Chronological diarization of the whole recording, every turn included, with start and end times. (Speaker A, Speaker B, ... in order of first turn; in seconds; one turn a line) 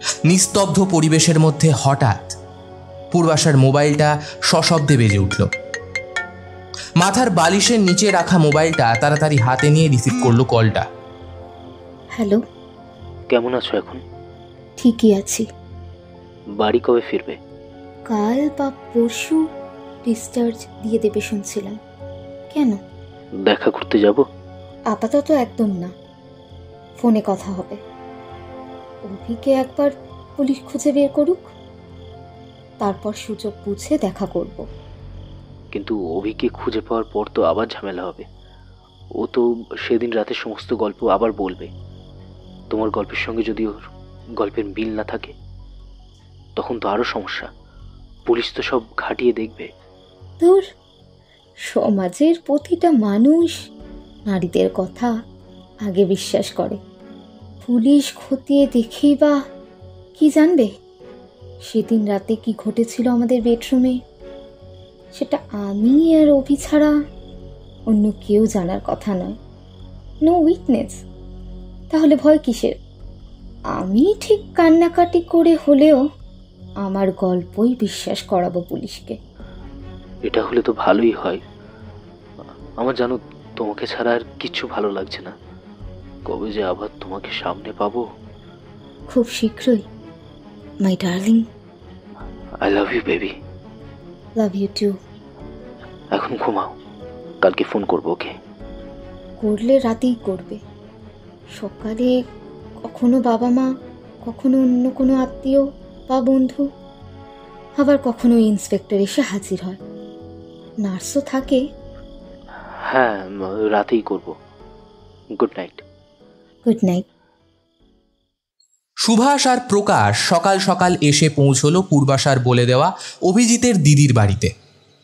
Speaker A: 0.3-2.4
Speaker A: 3.1-5.5
Speaker A: 7.0-10.9
Speaker B: 12.2-12.4
Speaker C: 13.3-14.0
Speaker B: 14.8-15.5
Speaker C: 16.6-17.4
Speaker B: 18.1-19.4
Speaker B: 20.1-21.8
Speaker B: 22.5-22.8
Speaker C: 23.5-24.2
Speaker B: 24.9-25.9
Speaker B: 27.0-27.8
Speaker B: 29.1-31.5
Speaker B: 32.8-34.6
Speaker C: 35.7-38.3
Speaker C: 39.2-41.7
Speaker C: 42.7-43.8
Speaker C: 44.4-45.3
Speaker C: 46.6-47.5
Speaker C: 48.3-49.7
Speaker B: 51.7-53.6
Speaker B: 54.3-55.1
Speaker B: 55.9-56.8
Speaker B: 57.6-59.4
Speaker B: 60.2-60.7
Speaker B: 61.6-64.0
Speaker B: 65.2-66.9
Speaker B: 67.9-69.4
Speaker B: 70.2-71.0
Speaker B: 71.9-72.8
Speaker B: 73.8-76.0
Speaker B: 76.8-79.2
Speaker C: 80.3-81.4
Speaker C: 82.8-85.3
Speaker C: 86.3-88.0
Speaker B: 89.1-89.8
Speaker B: 90.8-91.5
Speaker C: 92.6-93.4
Speaker B: 94.4-95.0
Speaker C: 96.2-96.7
Speaker C: 97.4-98.3
Speaker B: 99.4-100.6
Speaker B: 101.5-102.2
Speaker B: 102.9-103.7
Speaker B: 104.2-106.7
Speaker B: 107.8-109.8
Speaker B: 110.8-111.6
Speaker C: 112.9-114.3
Speaker C: 115.4-115.8
Speaker B: 116.7-117.0
Speaker A: 119.0-124.5